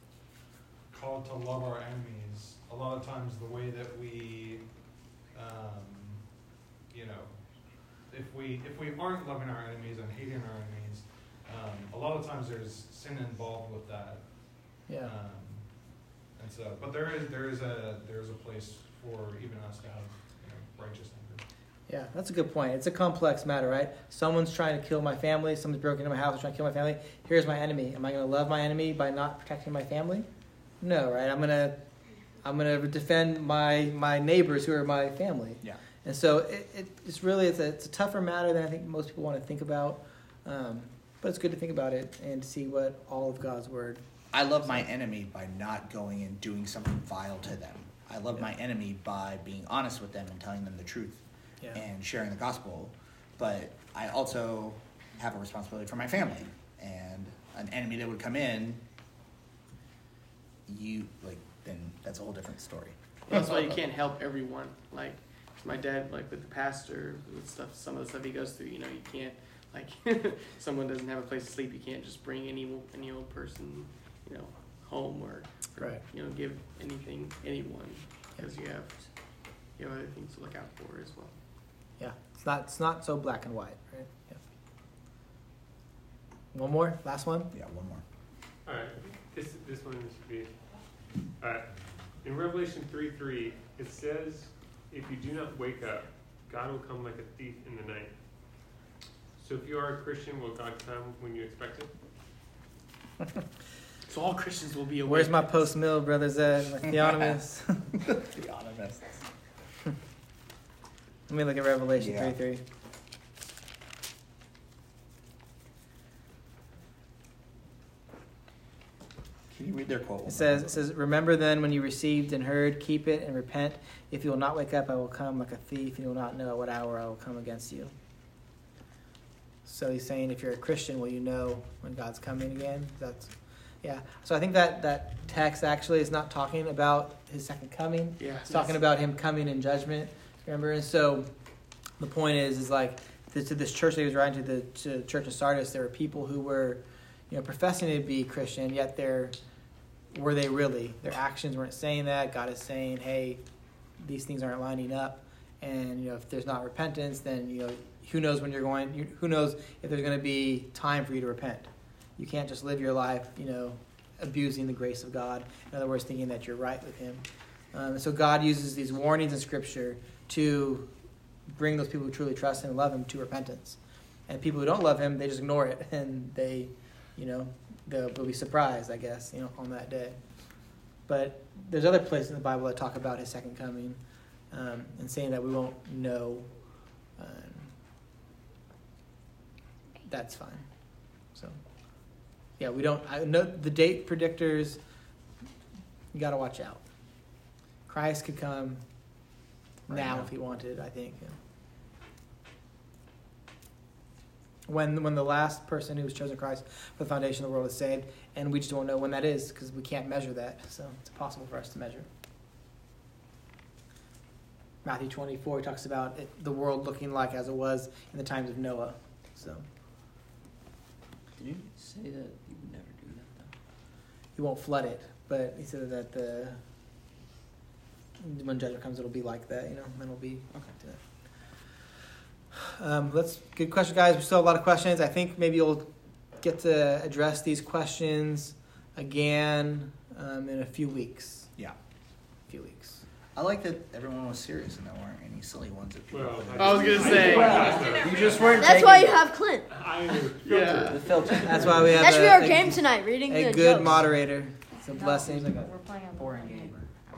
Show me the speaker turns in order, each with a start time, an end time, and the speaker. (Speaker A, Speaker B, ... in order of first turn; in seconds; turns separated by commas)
Speaker A: 0.9-21.4, Speaker B: 21.9-30.3, Speaker B: 30.8-31.8, Speaker B: 32.4-44.0, Speaker C: 44.3-58.8, Speaker C: 60.6-63.8, Speaker D: 63.3-79.1, Speaker D: 79.8-81.3, Speaker B: 82.0-84.4, Speaker B: 86.5-87.5, Speaker C: 87.5-88.0, Speaker E: 88.6-90.5, Speaker E: 91.4-98.1, Speaker E: 99.4-101.9, Speaker D: 104.1-105.7, Speaker B: 105.0-107.9, Speaker C: 108.0-109.2, Speaker B: 111.3-112.6, Speaker C: 112.0-112.4, Speaker C: 119.5-120.8, Speaker B: 120.2-127.9, Speaker B: 129.7-141.3, Speaker D: 138.2-138.8, Speaker B: 142.0-149.3, Speaker B: 150.1-153.4, Speaker B: 154.0-170.9, Speaker B: 171.5-180.2, Speaker B: 181.1-184.0, Speaker B: 184.5-186.5, Speaker B: 187.2-187.7, Speaker B: 190.1-190.7, Speaker B: 192.6-194.8, Speaker B: 196.1-196.8, Speaker B: 197.9-198.8, Speaker B: 199.9-201.4, Speaker C: 199.9-200.3, Speaker B: 204.7-212.1, Speaker B: 214.8-219.6, Speaker F: 221.3-223.5, Speaker B: 224.3-226.6, Speaker B: 228.2-231.0, Speaker F: 230.5-230.8, Speaker B: 232.6-241.5, Speaker B: 242.5-243.0, Speaker C: 243.3-247.2, Speaker E: 246.1-248.7, Speaker D: 246.5-248.0, Speaker F: 247.0-249.3, Speaker G: 248.4-249.7, Speaker E: 249.7-251.6, Speaker D: 250.4-251.4, Speaker F: 250.8-252.1, Speaker B: 251.4-255.7, Speaker G: 252.0-254.0, Speaker G: 255.1-256.8, Speaker F: 256.2-256.7